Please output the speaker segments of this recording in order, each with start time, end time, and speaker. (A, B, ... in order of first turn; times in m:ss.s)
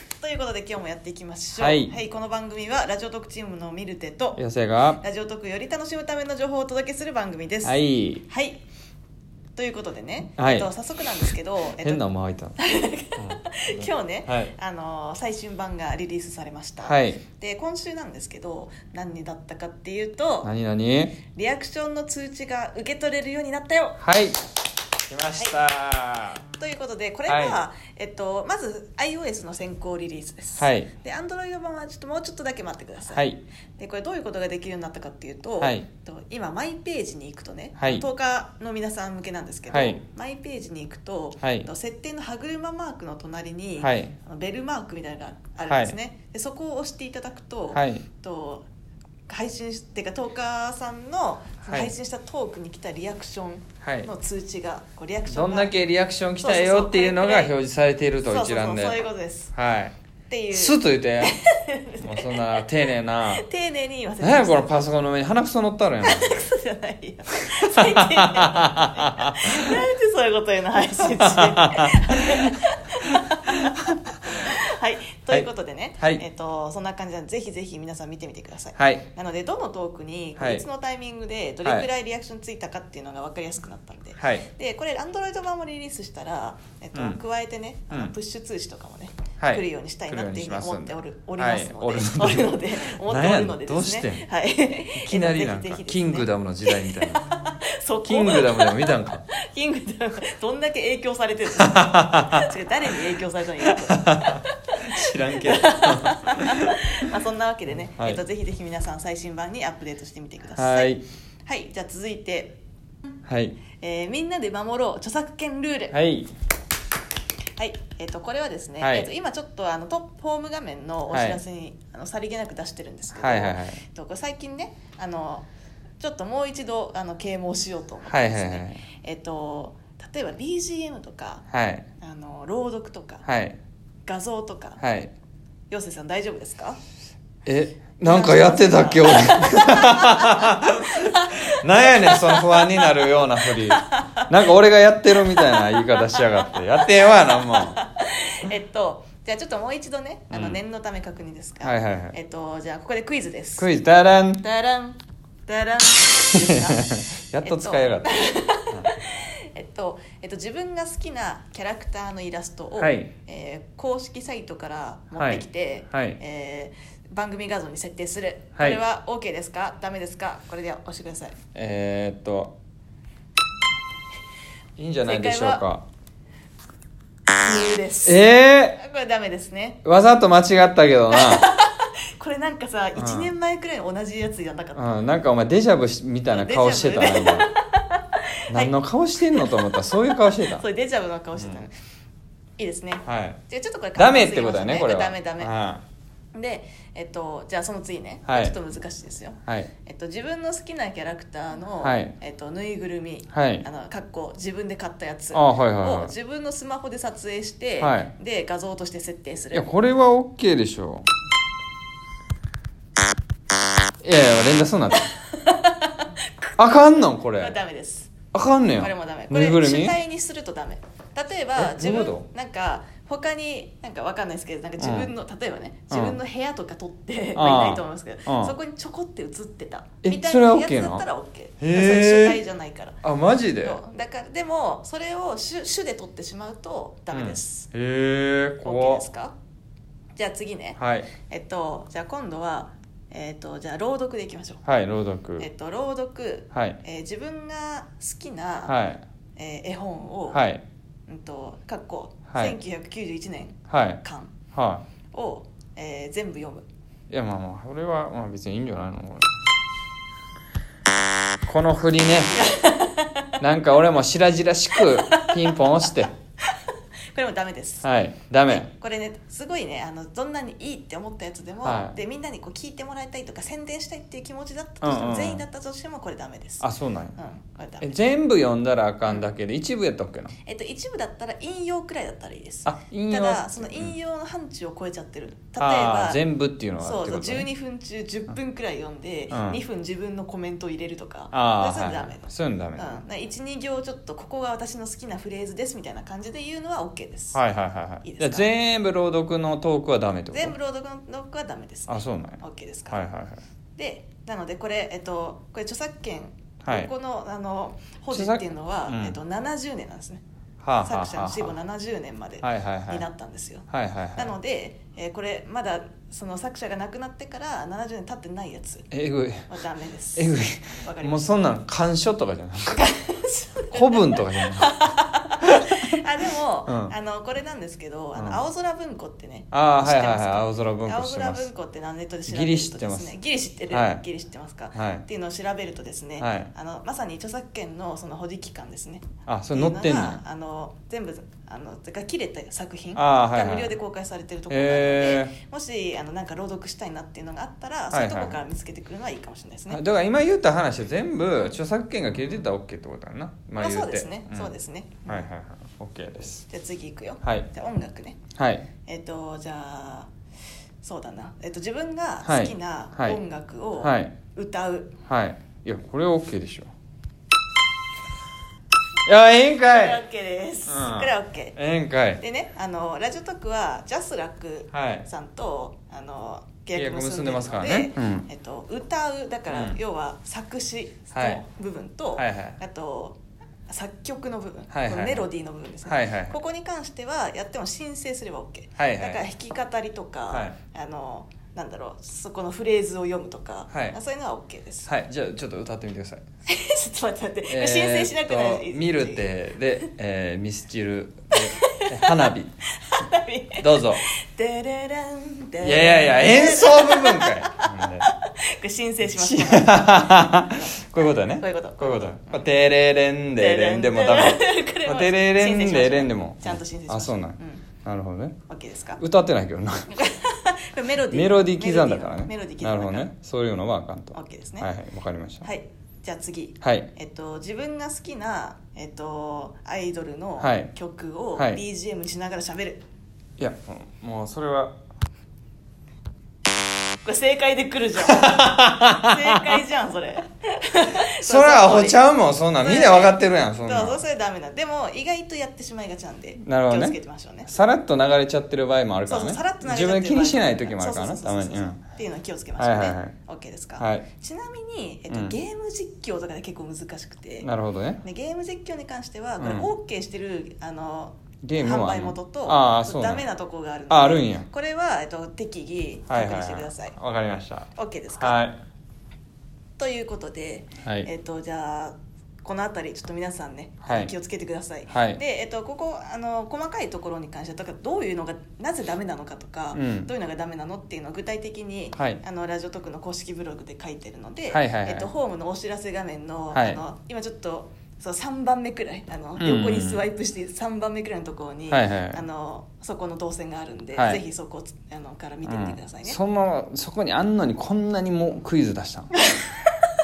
0:00.2-0:04.4 A
0:01.6-0:01.9 B
0:04.4-0:05.0 B
0:05.0-0:08.6 A
0:07.6-0:08.2 B
0:09.6-0:12.0 A
0:10.4-0:10.7 B
0:11.8-0:12.6 B
0:12.6-0:20.5 A
0:13.2-0:14.5 B
0:16.8-0:17.2 B
0:20.4-0:21.2 B
0:21.3-0:24.0 A
0:24.0-0:24.4 B
0:25.1-0:26.4 B
0:26.5-0:33.2 A
0:27.3-0:27.6 B
0:30.6-0:30.9 B
0:33.1-0:33.4 B
0:33.8-0:48.7 A
0:35.6-0:35.9 B
0:37.8-0:38.0 B
0:39.7-0:40.0 B
0:41.4-0:41.7 B
0:43.8-0:44.2 B
0:45.7-0:46.0 B
0:47.7-0:48.1 B
0:49.3-0:55.7 A
0:51.6-0:51.9 B
0:53.8-0:54.1 B
0:55.3-0:59.0 B
0:56.4-0:57.6 A
0:58.2-0:59.5 A
0:59.5-0:59.9 B
1:00.3-1:02.7 A
1:00.5-1:01.4 B
1:02.0-1:03.4 B
1:03.3-1:04.9 A
1:04.2-1:06.5 B
1:06.0-1:52.6 A
1:07.5-1:09.8 B
1:11.0-1:12.5 B
1:13.5-1:13.9 B
1:18.8-1:19.1 B
1:20.4-1:20.6 B
1:24.2-1:24.5 B
1:26.9-1:27.2 B
1:29.4-1:34.2 B
1:34.9-1:37.3 B
1:38.1-1:39.3 B
1:41.7-1:42.5 B
1:43.6-1:47.1 B
1:50.6-1:51.0 B
1:53.3-1:53.6 B
1:53.8-1:56.0 A
1:55.9-1:56.3 B
1:57.6-2:05.5 A
1:58.8-1:59.1 B
2:01.1-2:01.4 B
2:03.1-2:03.8 B
2:06.0-2:11.4 A
2:08.0-2:08.8 B
2:11.5-2:11.9 B
2:12.0-2:13.3 A
2:13.3-2:13.6 B
2:14.1-2:14.8 A
2:14.8-2:15.1 B
2:15.7-2:16.8 A
2:17.5-2:27.8 B
2:18.0-2:24.3 A
2:25.2-2:33.7 A
2:30.3-2:30.6 B
2:31.6-2:32.2 B
2:33.6-2:34.4 B
2:34.4-2:36.9 A
2:36.4-2:38.9 B
2:37.4-2:51.4 A
2:42.8-2:43.1 B
2:45.2-2:46.2 B
2:48.6-2:48.8 B
2:51.6-2:52.6 B
2:54.8-2:55.8 B
2:55.0-2:55.6 A
2:57.4-2:58.2 A
2:58.0-2:58.8 B
2:58.8-2:59.8 A
2:59.8-3:01.4 B
3:01.1-3:04.8 A
3:03.0-3:03.3 B
3:04.8-3:07.5 B
3:06.3-3:08.7 A
3:08.5-3:10.6 B
3:09.3-3:11.7 A
3:11.4-3:11.6 B
3:12.6-3:15.5 A
3:13.1-3:13.4 B
3:14.0-3:15.8 B
3:16.3-3:29.7 A
3:18.3-3:18.6 B
3:21.8-3:22.2 B
3:23.3-3:23.7 B
3:25.3-3:26.1 B
3:27.8-3:28.1 B
3:29.5-3:31.1 B
3:34.0-3:35.1 B
3:35.0-3:36.6 A
3:36.6-3:37.6 B
3:37.4-3:38.2 A
3:38.3-3:40.0 B
3:38.8-3:53.0 A
3:41.6-3:42.3 B
3:44.8-3:45.1 B
3:45.9-3:46.2 B
3:47.4-3:48.6 B
3:50.0-3:51.1 B
3:51.6-3:52.4 B
3:53.0-3:53.8 B
3:53.6-3:57.7 A
3:57.1-3:59.0 B
3:58.6-3:59.4 A
4:00.2-4:04.6 A
4:00.8-4:01.1 B
4:04.6-4:05.5 B
4:05.4-4:08.8 A
4:06.5-4:06.8 B
4:08.7-4:09.0 B
4:09.4-4:10.4 A
4:10.3-4:10.6 B
4:11.1-4:14.4 A
4:13.7-4:14.0 B
4:14.5-4:14.8 B
4:15.1-4:16.6 A
4:17.1-4:19.4 B
4:21.5-4:22.5 B
4:22.3-4:23.4 A
4:23.4-4:26.1 B
4:24.8-4:25.4 A
4:25.9-4:27.9 A
4:27.8-4:28.7 B
4:28.5-4:37.9 A
4:31.6-4:32.0 B
4:34.8-4:35.4 B
4:36.6-4:37.2 B
4:37.8-4:40.4 B
4:40.4-4:46.2 A
4:42.6-4:43.9 B
4:45.6-4:47.5 B
4:46.8-4:57.4 A
4:49.3-4:49.6 B
4:51.3-4:53.0 B
4:57.4-5:00.6 B
4:58.0-4:58.5 A
5:00.3-5:03.0 A
5:01.9-5:03.4 B
5:03.8-5:10.2 A
5:06.6-5:06.9 B
5:08.1-5:09.2 B
5:10.6-5:11.6 B
5:10.8-5:18.9 A
5:12.4-5:13.0 B
5:13.7-5:14.3 B
5:18.9-5:19.5 B
5:19.5-5:21.6 A
5:20.2-5:22.8 B
5:22.7-5:49.8 A
5:23.7-5:24.8 B
5:25.4-5:25.8 B
5:26.7-5:26.9 B
5:29.5-5:31.5 B
5:32.3-5:33.1 B
5:33.7-5:34.0 B
5:34.7-5:35.0 B
5:36.2-5:36.5 B
5:39.2-5:40.2 B
5:43.0-5:43.7 B
5:44.5-5:45.4 B
5:47.9-5:48.4 B
5:49.7-5:54.6 B
5:53.6-5:55.3 A
5:55.1-5:56.4 B
5:56.5-5:58.2 A
5:58.4-5:58.7 B
5:58.9-6:00.1 A
6:00.8-6:05.0 A
6:02.2-6:03.2 B
6:03.8-6:04.2 B
6:05.1-6:06.7 B
6:09.0-6:10.0 B
6:09.6-6:11.6 A
6:10.7-6:12.2 B
6:12.2-6:23.2 A
6:14.7-6:15.1 B
6:16.8-6:18.3 B
6:19.5-6:19.8 B
6:21.1-6:21.4 B
6:22.2-6:22.6 B
6:23.7-6:34.9 A
6:24.7-6:25.3 B
6:25.8-6:26.4 B
6:28.8-6:29.2 B
6:30.3-6:30.6 B
6:33.7-6:34.0 B
6:34.9-6:36.2 B
6:36.5-6:39.2 A
6:37.5-6:42.5 B
6:41.4-6:52.5 A
6:43.6-6:44.0 B
6:45.6-6:48.1 B
6:49.1-6:58.4 B
6:53.4-6:57.7 A
6:58.5-6:59.0 A
6:59.0-6:59.9 B
6:59.9-7:03.1 A
7:01.1-7:05.5 B
7:04.1-7:04.7 A
7:05.4-7:12.8 A
7:06.6-7:06.9 B
7:10.4-7:10.7 B
7:11.4-7:11.6 B
7:13.4-7:14.7 B
7:17.0-7:22.0 A
7:18.1-7:19.4 B
7:21.0-7:24.0 B
7:22.6-7:27.5 A
7:26.4-7:27.0 B
7:27.5-7:31.8 B
7:29.1-7:37.5 A
7:32.6-7:33.1 B
7:33.8-7:34.0 B
7:37.4-7:38.0 B
7:38.0-7:47.0 A
7:39.4-7:39.7 B
7:41.4-7:43.2 B
7:43.9-7:44.5 B
7:46.1-7:48.6 B
7:47.7-7:48.4 A
7:49.8-8:16.2 A
7:50.8-7:51.1 B
7:53.8-7:54.1 B
7:54.9-7:55.2 B
7:59.7-8:00.1 B
8:04.5-8:05.1 B
8:06.5-8:06.8 B
8:09.4-8:10.0 B
8:11.7-8:12.2 B
8:14.0-8:14.2 B
8:15.4-8:19.1 B
8:19.2-8:19.5 A